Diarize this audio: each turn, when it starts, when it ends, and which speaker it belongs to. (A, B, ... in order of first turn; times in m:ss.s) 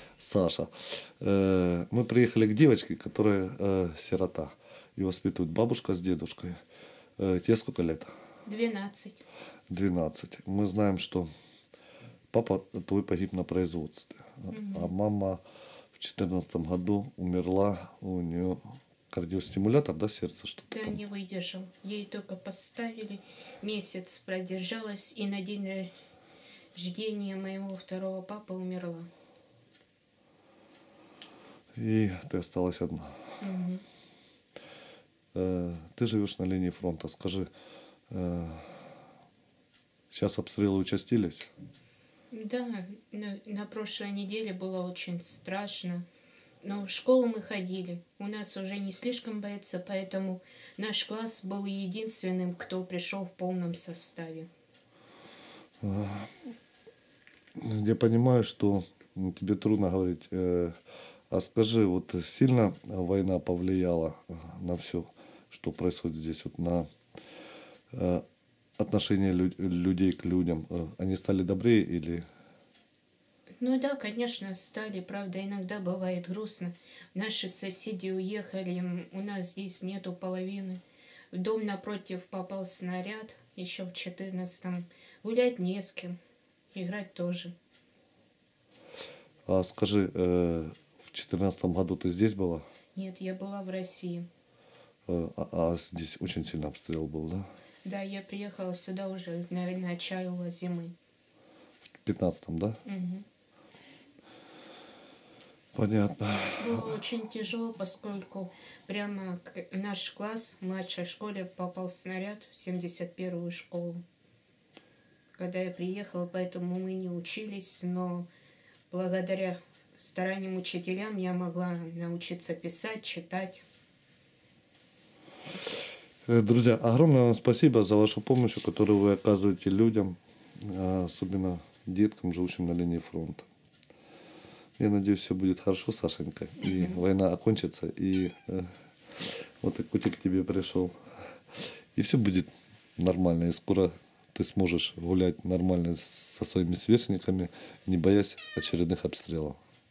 0:00.2-0:06.6 A
0:07.2-0:08.1 A
0:08.5-0:09.2 B
0:09.7-0:11.3 A
0:12.3-0:15.4 A
0:14.5-0:14.9 B
0:16.0-0:21.0 A
0:20.7-0:25.9 B
0:26.7-0:29.1 B
0:31.8-0:33.3 A
0:33.4-0:33.8 B
0:35.3-0:37.5 A
0:38.1-0:38.7 A
0:40.1-0:41.5 A
0:42.3-0:46.0 B
0:46.6-0:54.5 B
0:55.8-0:56.3 A
0:57.6-1:00.8 A
1:01.3-1:06.9 A
1:07.9-1:08.2 A
1:08.8-1:12.2 A
1:13.6-1:20.8 B
1:21.3-1:26.2 B
1:26.7-1:27.6 B
1:29.4-1:32.6 A
1:33.0-1:34.3 B
1:35.1-1:37.5 A
1:37.8-1:40.9 B
1:41.8-1:42.8 A
1:42.8-1:43.2 B
1:45.8-1:47.0 A
1:46.6-1:54.0 B
1:55.3-1:58.3 B
1:58.9-2:03.6 B
2:06.3-2:13.5 A
2:14.8-2:21.0 A
2:16.6-2:17.0 B
2:21.9-2:29.6 A